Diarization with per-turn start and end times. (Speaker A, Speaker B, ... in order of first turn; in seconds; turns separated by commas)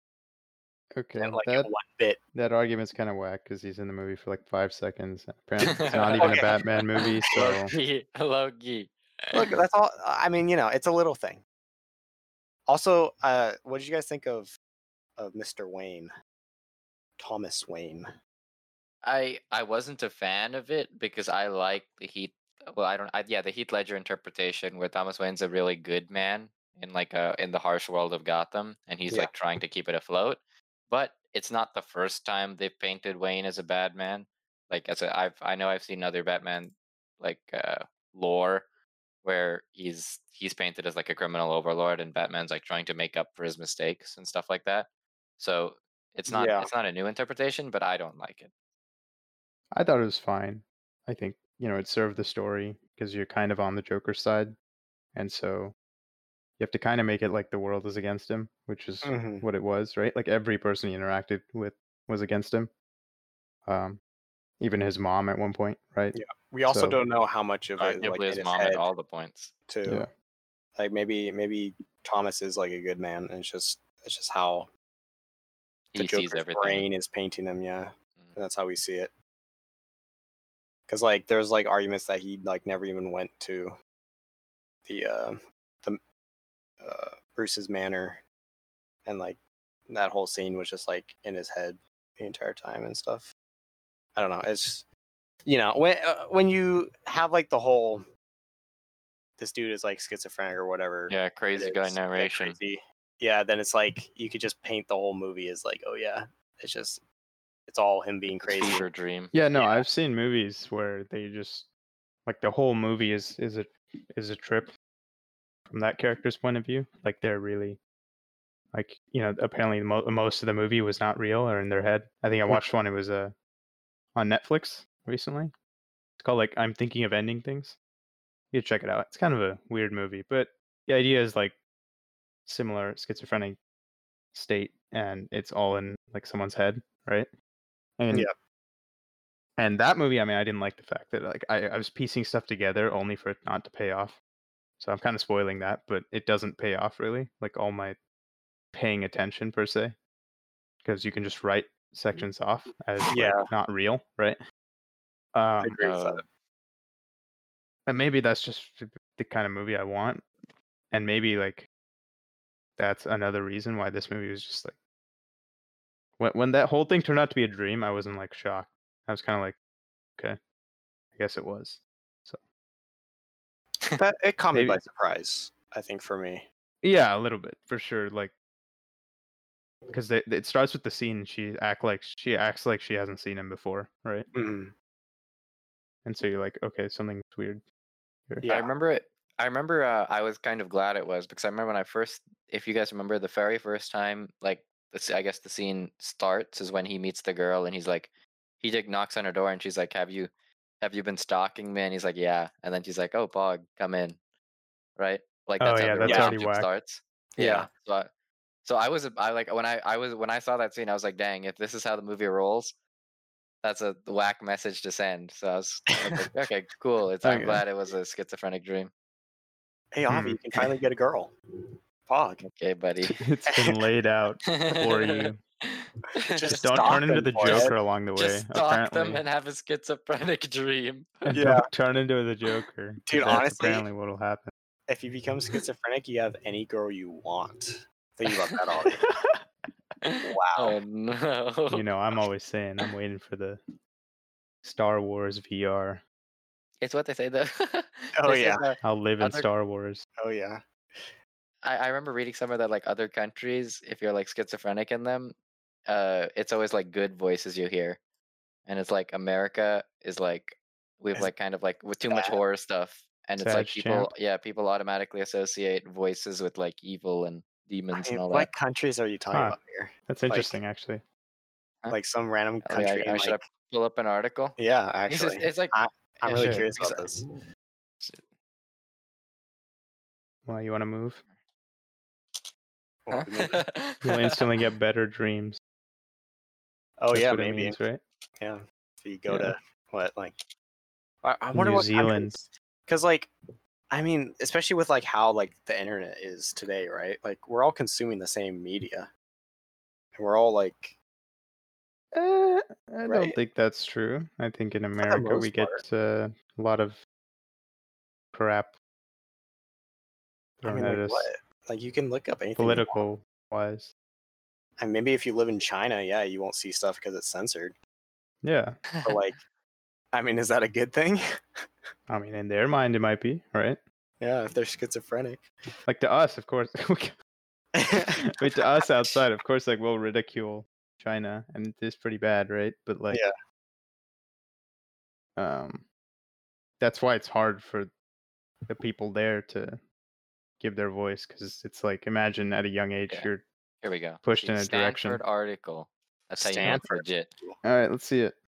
Speaker A: 0.9-1.7, Speaker B: 1.2-2.2, Speaker A: 2.3-7.7, Speaker C: 5.6-9.5, Speaker B: 6.2-6.6, Speaker B: 9.3-11.4, Speaker B: 12.7-14.5, Speaker B: 15.2-16.1, Speaker B: 17.2-18.1, Speaker C: 19.0-30.4, Speaker C: 30.9-38.7, Speaker C: 39.2-48.5, Speaker B: 46.3-46.7, Speaker A: 49.7-54.5, Speaker A: 55.1-55.7, Speaker A: 56.6-62.7, Speaker B: 59.0-59.5, Speaker A: 63.6-64.0, Speaker A: 64.6-66.2, Speaker B: 66.1-68.8, Speaker A: 66.7-67.0, Speaker C: 67.8-69.5, Speaker B: 69.7-70.0, Speaker B: 70.8-74.7, Speaker C: 75.9-76.9, Speaker B: 75.9-79.1, Speaker B: 80.9-83.7, Speaker B: 84.8-86.0, Speaker B: 86.8-88.2, Speaker B: 89.0-93.3, Speaker B: 94.2-94.8, Speaker B: 95.5-98.0, Speaker B: 99.4-107.0, Speaker C: 101.1-102.6, Speaker B: 107.7-108.9, Speaker C: 108.4-109.3, Speaker A: 109.3-111.7, Speaker B: 109.5-109.8, Speaker A: 112.2-114.7, Speaker A: 115.7-117.8, Speaker A: 118.7-123.3, Speaker A: 124.1-125.5, Speaker A: 126.2-127.8, Speaker A: 128.5-131.6, Speaker A: 132.4-133.6, Speaker A: 134.3-137.3, Speaker A: 138.0-138.3, Speaker A: 139.6-144.2, Speaker A: 144.8-148.0, Speaker A: 148.7-150.0, Speaker A: 150.8-154.4, Speaker B: 153.1-153.5, Speaker A: 155.3-155.8, Speaker B: 155.6-156.2, Speaker C: 155.8-156.2, Speaker A: 157.8-160.2, Speaker A: 160.9-161.7, Speaker A: 162.8-164.8, Speaker A: 166.2-169.6, Speaker A: 171.2-172.4, Speaker B: 174.0-176.5, Speaker A: 174.5-174.8, Speaker A: 176.8-178.3, Speaker A: 179.9-184.3, Speaker B: 184.3-184.7, Speaker A: 186.0-187.6, Speaker B: 188.4-188.7, Speaker C: 188.4-198.1, Speaker C: 198.6-200.3, Speaker C: 200.8-204.2, Speaker C: 205.0-208.1, Speaker A: 205.6-206.7, Speaker B: 206.0-206.3, Speaker B: 207.3-207.7, Speaker C: 208.6-212.7, Speaker C: 213.6-218.9, Speaker A: 217.2-217.6, Speaker B: 219.9-221.3, Speaker A: 220.1-220.4, Speaker B: 222.1-222.4, Speaker C: 222.4-223.2, Speaker A: 223.2-225.4, Speaker C: 224.5-231.3, Speaker B: 226.3-227.8, Speaker A: 226.5-229.2, Speaker A: 231.2-234.5, Speaker B: 231.3-231.7, Speaker B: 233.1-233.9, Speaker B: 234.9-239.0, Speaker A: 239.1-239.4, Speaker C: 240.0-241.8, Speaker B: 240.2-240.8, Speaker A: 241.7-243.6, Speaker A: 244.6-246.0, Speaker C: 246.8-249.5, Speaker B: 248.2-248.7, Speaker A: 248.8-250.0, Speaker B: 250.2-251.1, Speaker C: 251.6-255.3, Speaker C: 255.9-258.0, Speaker C: 258.6-268.5, Speaker B: 262.1-262.4, Speaker A: 263.4-264.1, Speaker B: 267.9-270.6, Speaker A: 270.1-271.0, Speaker B: 271.9-273.4, Speaker C: 272.6-274.6, Speaker B: 274.6-277.2, Speaker C: 275.1-275.7, Speaker A: 276.3-276.6, Speaker C: 276.4-277.0, Speaker A: 280.4-281.2, Speaker B: 283.1-283.6, Speaker C: 283.1-284.4, Speaker A: 284.0-285.6, Speaker B: 287.0-287.8, Speaker A: 287.1-288.0, Speaker B: 288.4-290.4, Speaker A: 289.3-289.5, Speaker B: 291.2-293.3, Speaker A: 291.5-292.4, Speaker B: 293.9-299.1, Speaker B: 300.1-300.9, Speaker A: 302.1-307.0, Speaker B: 303.1-303.4, Speaker B: 305.0-305.8, Speaker A: 308.3-308.7, Speaker A: 310.6-311.3, Speaker B: 310.6-313.0, Speaker A: 312.6-313.9, Speaker B: 314.8-317.8, Speaker A: 318.4-318.8, Speaker C: 318.9-319.2, Speaker B: 319.0-319.4, Speaker B: 320.1-321.2, Speaker A: 322.1-323.8, Speaker B: 324.2-325.4, Speaker A: 325.9-327.1, Speaker B: 327.8-329.2, Speaker A: 328.2-333.2, Speaker A: 335.4-335.9, Speaker A: 336.8-337.9, Speaker A: 338.7-339.8, Speaker A: 340.6-343.4, Speaker C: 343.8-347.3, Speaker A: 344.2-345.2, Speaker B: 346.4-347.6, Speaker A: 347.6-348.4